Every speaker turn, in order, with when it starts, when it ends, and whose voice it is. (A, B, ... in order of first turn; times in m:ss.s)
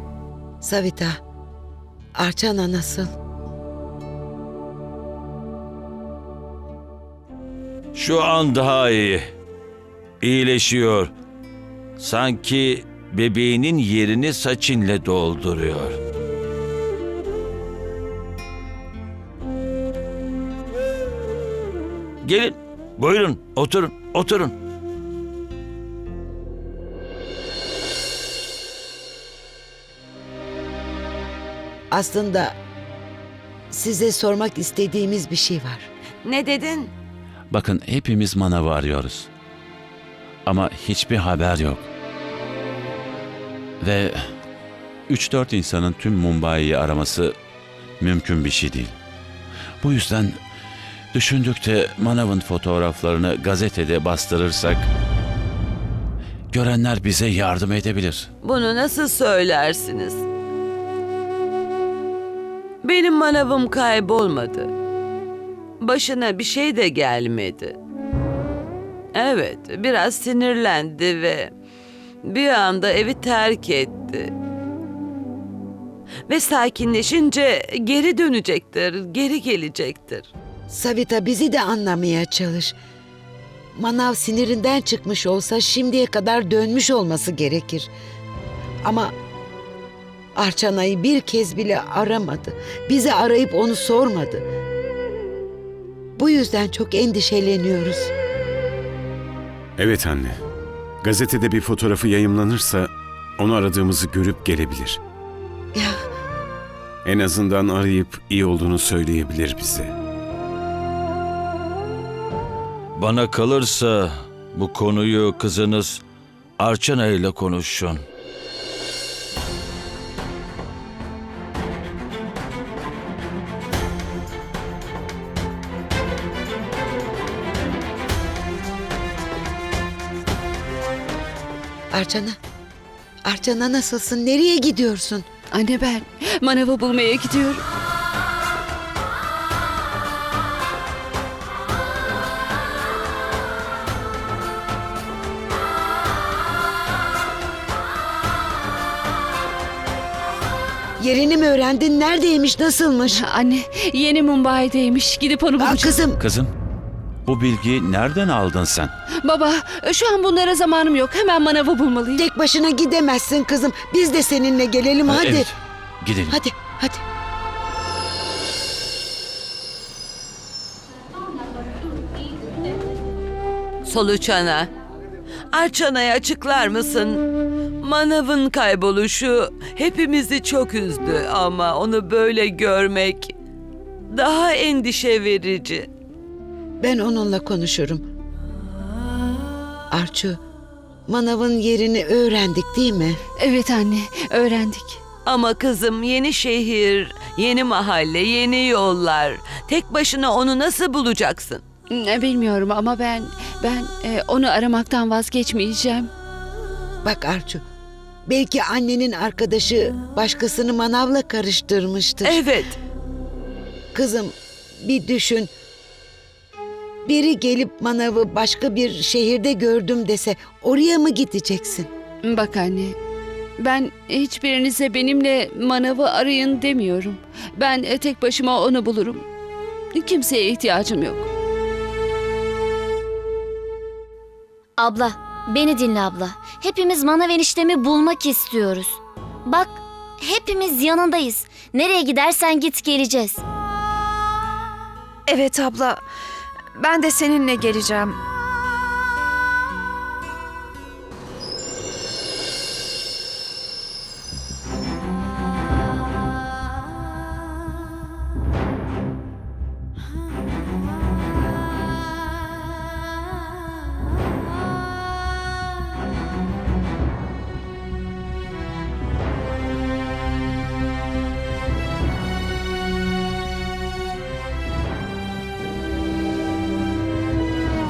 0:00.6-0:01.2 A
0:02.2-0:03.1 A
0:07.9-0:09.3 B
0:10.2-0:11.1 B
0:12.0-0:16.0 B
0:22.2-0:24.5 B
0:31.9-0:32.6 A
0:33.7-0:35.9 A
0:36.2-0:36.9 C
0:37.5-0:39.3 D
0:40.5-0:41.9 D
0:43.8-0:44.2 D
0:45.1-0:47.4 D
0:48.0-0:48.9 D
0:49.8-0:50.4 D
0:51.1-0:54.9 D
0:56.5-0:58.3 D
0:58.4-1:00.2 C
1:02.8-1:04.7 C
1:05.8-1:07.8 C
1:09.2-1:11.5 C
1:12.2-1:14.3 C
1:16.3-1:20.3 C
1:20.7-1:22.8 A
1:23.8-1:27.9 A
1:28.8-1:29.1 A
1:30.4-1:34.4 A
1:36.2-1:38.1 A
1:39.8-1:40.4 E
1:41.0-1:45.0 E
1:47.0-1:49.9 E
1:53.0-1:56.0 B
1:56.6-1:58.0 B
2:11.9-2:12.4 A
2:13.2-2:15.3 A
2:15.5-2:17.6 F
2:31.0-2:33.2 A
2:33.1-2:36.0 F
2:35.6-2:36.2 A
2:36.2-2:36.5 D
2:37.3-2:38.9 D
2:39.2-2:42.2 F
2:42.2-2:45.5 A
2:45.1-2:46.4 D
2:46.3-2:47.0 A
2:53.8-2:54.7 C
2:55.5-2:57.2 C
2:57.8-3:03.3 C
3:04.1-3:05.9 C
3:06.8-3:08.0 A
3:09.9-3:10.4 A
3:11.1-3:13.2 A
3:13.4-3:15.0 F
3:15.3-3:21.6 C
3:21.9-3:26.1 F
3:27.0-3:27.6 A
3:28.3-3:32.4 A
3:32.2-3:32.8 C
3:33.9-3:35.5 A
3:37.0-3:41.9 A
3:42.2-3:43.0 F
3:43.6-3:49.2 F
3:50.0-3:51.3 F
3:54.8-4:03.4 G
4:05.3-4:06.0 H
4:06.8-4:08.2 H